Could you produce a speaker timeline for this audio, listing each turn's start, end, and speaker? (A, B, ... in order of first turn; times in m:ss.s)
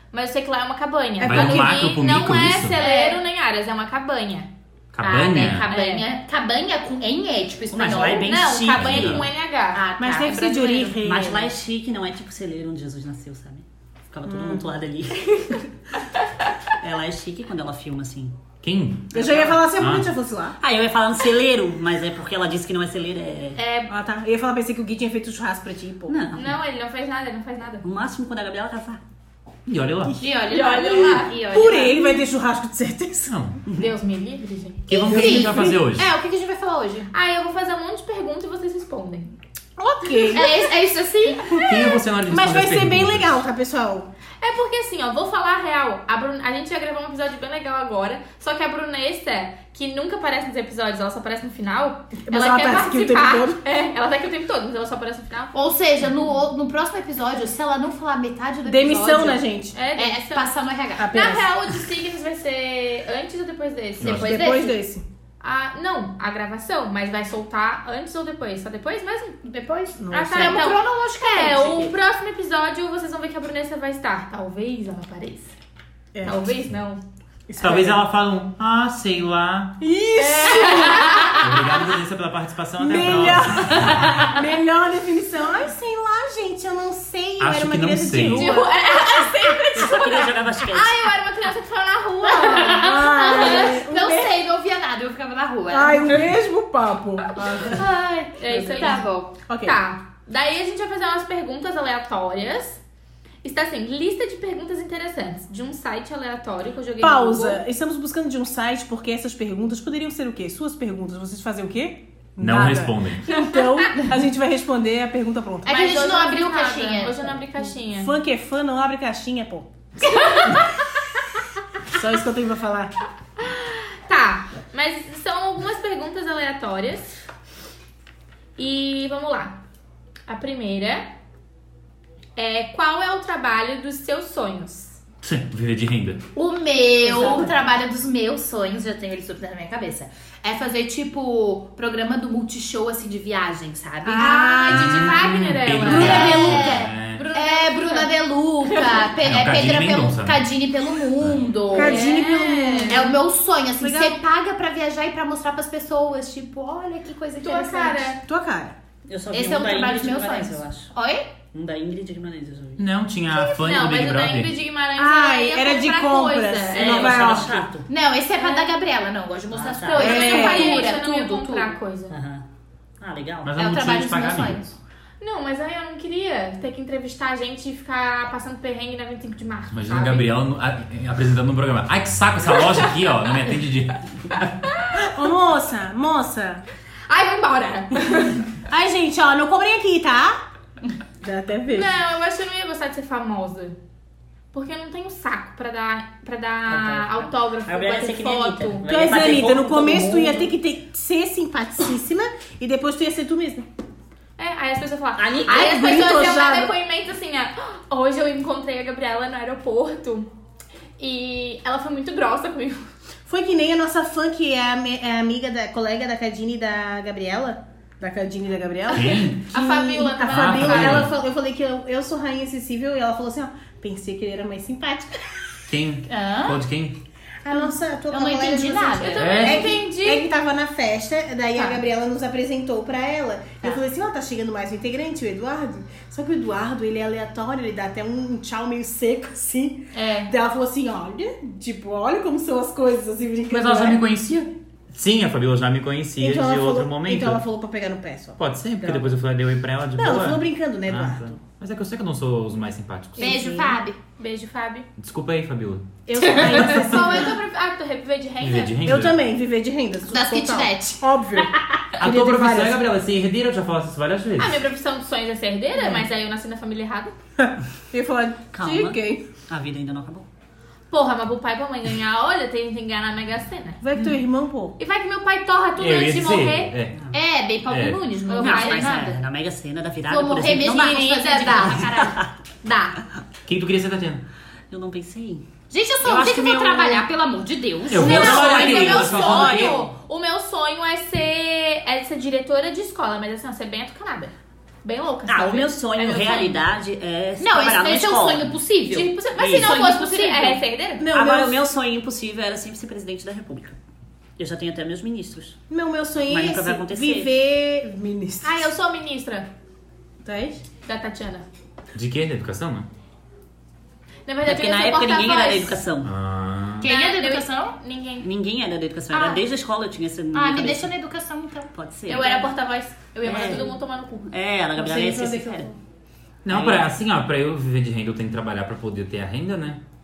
0:00.1-0:04.5 A
0:01.2-0:01.9 B
0:01.2-0:02.8 C
0:02.8-0:03.2 D
0:04.9-0:05.7 C
0:05.0-0:08.4 D
0:05.4-0:06.0 A
0:07.7-0:09.3 E
0:08.2-0:11.0 A
0:08.7-0:09.3 C
0:09.7-0:10.9 D
0:10.0-0:11.5 B
0:11.0-0:15.7 E
0:14.3-0:14.7 B
0:16.7-0:18.4 E
0:18.6-0:19.2 C
0:19.1-0:20.6 B
0:19.2-0:19.6 E
0:19.7-0:20.1 C
0:20.6-0:23.6 E
0:23.6-0:23.9 A
0:23.9-0:26.1 B
0:26.1-0:26.6 E
0:26.4-0:27.8 A
0:27.8-0:29.0 E
0:29.6-0:30.2 C
0:30.2-0:32.3 D
0:30.4-0:31.3 A
0:31.0-0:33.3 B
0:33.3-0:33.6 C
0:33.7-0:35.1 A
0:34.9-0:36.1 C
0:34.9-0:37.1 D
0:35.1-0:35.8 B
0:37.1-0:39.4 A
0:39.8-0:40.5 B
0:40.3-0:41.7 A
0:40.3-0:41.5 D
0:41.5-0:44.1 B
0:41.6-0:43.4 C
0:44.4-0:55.5 A
0:52.2-0:53.6 B
0:55.5-1:01.3 D
0:58.6-0:59.8 B
0:59.7-1:04.8 A
1:01.0-1:01.5 B
1:04.0-1:04.4 C
1:04.0-1:05.0 B
1:04.2-1:04.7 D
1:05.4-1:09.4 A
1:09.4-1:11.9 D
1:10.0-1:10.6 B
1:10.1-1:10.8 A
1:11.3-1:15.5 A
1:16.1-1:16.5 B
1:16.2-1:17.0 A
1:17.5-1:18.0 B
1:17.6-1:19.8 C
1:19.8-1:21.7 B
1:20.2-1:21.4 A
1:21.4-1:24.4 C
1:22.8-1:28.7 B
1:27.4-1:28.6 C
1:28.2-1:33.7 A
1:29.7-1:31.1 E
1:32.3-1:34.3 B
1:32.3-1:36.2 D
1:35.7-1:37.8 B
1:37.6-1:39.3 D
1:38.4-1:39.0 A
1:38.6-1:38.9 B
1:39.5-1:39.8 B
1:39.6-1:42.8 A
1:43.4-1:47.6 A
1:47.0-1:55.8 B
1:52.4-1:53.2 C
1:53.3-1:54.0 A
1:55.6-1:57.4 D
1:55.7-1:58.1 A
1:57.9-1:59.7 B
2:00.0-2:00.6 A
2:01.9-2:02.9 B
2:03.4-2:07.2 A
2:08.6-2:09.6 A
2:10.3-2:11.1 A
2:12.4-2:15.0 A
2:15.2-2:16.2 C
2:16.4-2:25.0 D
2:17.0-2:17.5 A
2:24.0-2:25.1 B
2:24.2-2:28.1 A
2:24.7-2:27.3 C
2:25.8-2:26.8 B
2:25.8-2:32.2 D
2:28.6-2:29.1 A
2:29.2-2:30.5 C
2:31.7-2:33.0 A
2:31.7-2:33.2 B
2:32.9-2:38.2 D
2:33.8-2:34.2 B
2:37.4-2:38.2 A
2:38.2-2:38.8 B
2:39.1-2:40.9 E
2:39.3-2:41.3 D
2:41.5-2:42.8 E
2:42.8-2:44.6 C
2:43.3-2:47.5 A
2:45.0-2:47.7 B
2:46.7-2:47.9 E
2:47.9-2:51.7 D
2:48.4-2:48.7 A
2:49.5-2:50.2 E
2:49.9-2:52.1 A
2:50.0-2:50.8 B
2:52.1-2:52.4 E
2:53.0-2:53.5 E
2:53.4-2:54.6 C
2:53.6-2:54.8 D
2:55.2-3:00.3 A
2:59.7-3:04.7 C
3:05.0-3:06.6 B
3:07.1-3:08.4 A
3:08.7-3:10.4 B
3:11.2-3:11.9 B
3:11.7-3:13.8 A
3:14.5-3:18.8 A
3:16.7-3:20.5 E
3:18.9-3:23.7 B
3:24.4-3:30.3 A
3:25.2-3:25.6 E
3:25.4-3:26.7 B
3:31.0-3:32.9 A
3:33.2-3:45.4 B
3:38.9-3:39.5 C
3:38.9-3:41.1 A
3:40.2-3:41.1 C
3:45.7-3:47.0 C
3:46.1-3:46.6 D
3:47.4-4:04.0 B
3:47.5-3:49.2 D
3:48.9-3:50.3 A
3:49.2-3:49.7 C
3:51.5-3:51.8 A
3:59.9-4:00.3 A
4:03.5-4:07.4 C
4:06.2-4:09.1 B
4:08.4-4:13.4 C
4:10.0-4:11.4 B
4:13.2-4:14.0 D
4:13.3-4:13.8 B
4:14.2-4:14.9 A
4:15.0-4:17.2 C
4:16.0-4:17.4 B
4:16.3-4:18.8 A
4:18.4-4:19.2 C
4:18.8-4:22.8 B
4:20.1-4:21.5 D
4:22.0-4:24.6 C
4:24.4-4:27.1 A
4:27.4-4:29.2 B
4:28.5-4:30.2 E
4:30.9-4:33.8 A
4:33.8-4:34.8 B
4:34.8-4:36.7 A
4:35.8-4:37.0 C
4:37.1-4:39.2 D
4:37.7-4:38.0 C
4:38.3-4:39.0 A
4:38.4-4:42.3 E
4:40.1-4:42.2 D
4:40.9-4:41.8 A
4:42.6-4:43.0 A
4:43.5-4:44.2 C
4:44.7-4:45.4 E
4:45.7-4:49.9 D
4:46.1-4:47.0 E
4:47.9-4:49.8 C
4:47.9-4:54.3 A
4:54.8-4:56.6 A
4:55.3-4:58.5 E
4:57.4-5:00.6 D
4:58.9-5:01.0 A
4:59.4-4:59.8 E
5:01.0-5:01.6 B
5:01.1-5:03.7 E
5:04.4-5:05.6 E
5:05.7-5:08.7 B
5:06.2-5:07.3 E
5:08.4-5:09.5 A
5:10.2-5:10.6 B
5:10.8-5:11.4 A
5:11.9-5:12.9 C
5:14.2-5:15.8 A
5:14.4-5:16.1 E
5:16.0-5:16.9 C
5:16.8-5:17.8 D
5:16.8-5:18.3 A
5:18.2-5:20.9 E
5:19.1-5:19.4 A
5:20.3-5:21.7 D
5:21.7-5:22.5 E
5:22.1-5:24.3 A
5:23.2-5:25.7 E
5:24.8-5:25.8 B
5:26.4-5:29.8 C
5:26.5-5:26.9 E